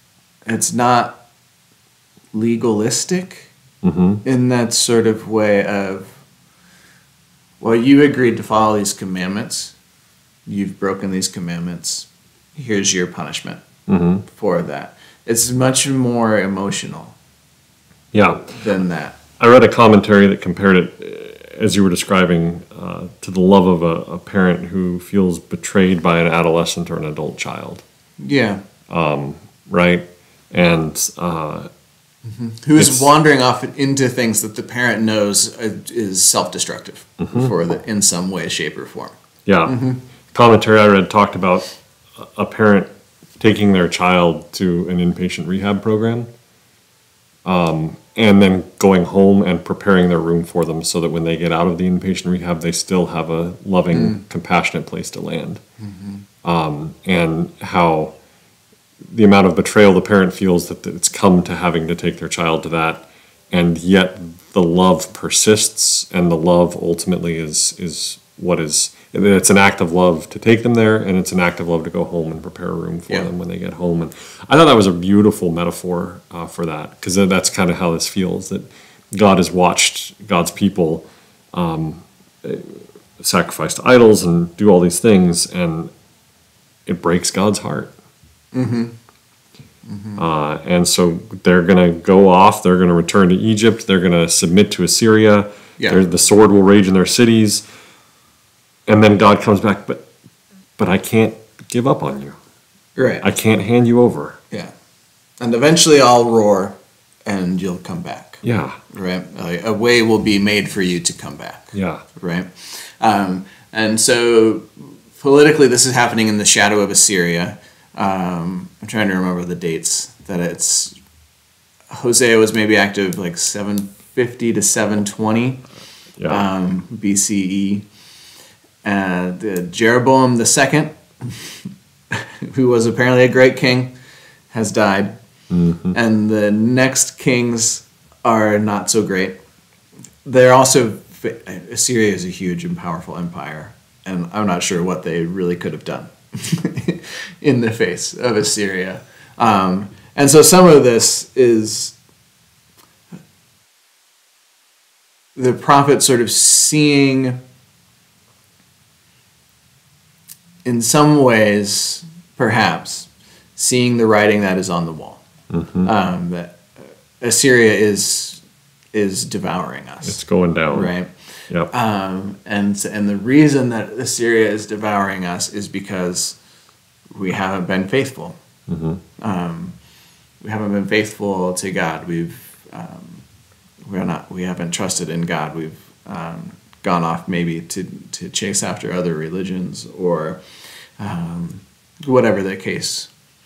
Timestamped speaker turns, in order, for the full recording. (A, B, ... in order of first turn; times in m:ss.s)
0:00.5-0:01.2 A
0:02.3-0:03.5 A
0:03.8-0:04.2 B
0:04.2-0:06.2 A
0:07.6-0:09.8 A
0:10.5-0:13.6 A
0:13.9-0:14.2 B
0:14.3-0:17.2 A
0:18.1-0:18.5 B
0:18.4-0:19.2 A
0:19.4-0:27.8 B
0:28.2-0:28.6 A
0:28.9-0:31.7 B
0:32.3-0:39.2 A
0:32.8-0:33.1 B
0:37.2-0:37.5 B
0:39.5-0:39.8 B
0:39.7-0:40.0 A
0:40.3-0:46.3 B
0:47.4-0:55.6 B
0:53.9-0:54.2 A
0:55.8-0:56.2 A
0:56.4-0:58.2 B
0:59.0-1:25.9 B
1:26.9-1:27.9 B
1:28.5-1:29.0 A
1:29.9-1:30.2 A
1:30.2-1:37.6 B
1:38.9-1:40.1 B
1:40.8-1:42.4 B
1:43.0-1:43.2 A
1:43.2-1:44.4 B
1:45.4-2:01.0 A
1:48.4-1:48.8 B
1:51.7-1:52.0 B
2:01.9-2:05.6 A
2:06.3-2:07.9 A
2:08.8-2:13.9 A
2:14.5-2:15.2 A
2:15.5-2:16.0 B
2:15.9-2:19.4 A
2:20.2-2:32.0 A
2:35.4-2:37.4 A
2:40.6-2:45.2 A
2:45.5-2:45.9 B
2:45.8-2:48.4 A
2:48.9-2:50.2 A
2:50.0-2:50.9 B
2:50.7-2:51.1 A
2:51.7-2:56.4 A
2:57.1-2:58.4 A
2:58.7-2:59.0 B
2:59.2-2:59.8 A
3:00.4-3:03.2 A
3:03.8-3:10.4 A
3:11.0-3:13.1 A